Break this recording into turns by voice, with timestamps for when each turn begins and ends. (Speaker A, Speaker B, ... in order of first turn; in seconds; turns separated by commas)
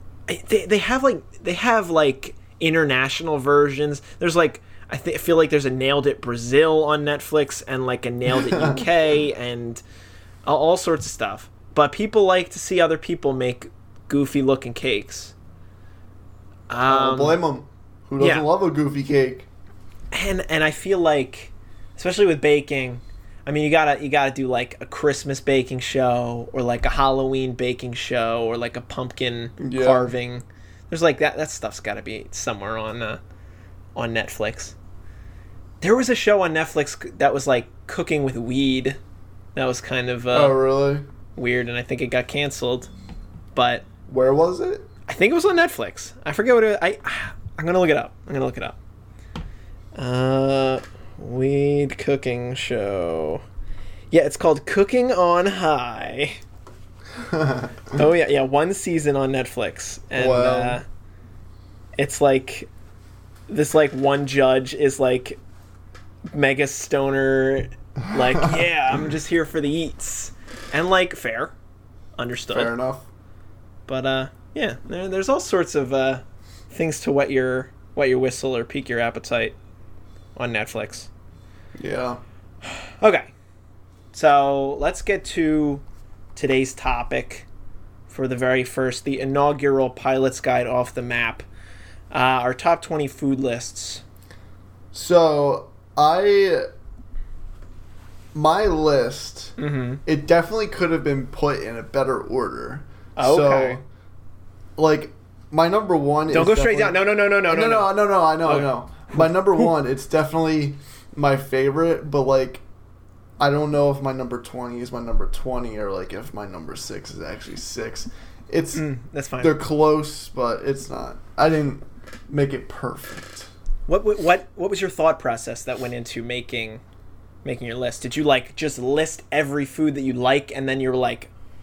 Speaker A: 0.3-9.8, Speaker B: 8.3-8.8, Speaker A: 10.4-15.3, Speaker A: 16.7-17.4, Speaker B: 16.9-19.5, Speaker A: 18.2-18.5, Speaker A: 20.1-33.2, Speaker B: 29.6-30.1, Speaker A: 34.0-34.7, Speaker A: 35.8-39.0, Speaker A: 39.5-40.6, Speaker B: 40.3-41.0, Speaker A: 41.4-42.9, Speaker A: 43.5-43.8, Speaker B: 44.1-44.9, Speaker A: 45.1-48.8, Speaker A: 50.0-53.4, Speaker A: 54.1-56.4, Speaker B: 57.2-57.9, Speaker A: 57.9-60.8, Speaker B: 60.1-60.8, Speaker A: 62.0-62.7, Speaker A: 63.5-65.4, Speaker A: 66.3-71.5, Speaker A: 72.2-72.7, Speaker B: 72.5-73.1, Speaker A: 73.9-79.5, Speaker A: 80.3-81.1, Speaker B: 81.8-82.2, Speaker A: 82.8-83.3, Speaker A: 84.1-85.8, Speaker A: 86.3-87.5, Speaker A: 88.1-91.4, Speaker A: 92.1-94.0, Speaker B: 94.9-96.7, Speaker B: 98.3-103.8, Speaker A: 99.6-100.0, Speaker A: 103.2-103.8, Speaker B: 104.8-112.6, Speaker A: 106.3-109.7, Speaker B: 113.4-118.8, Speaker A: 118.7-119.6, Speaker B: 119.4-123.5, Speaker A: 123.9-126.8, Speaker A: 127.4-131.3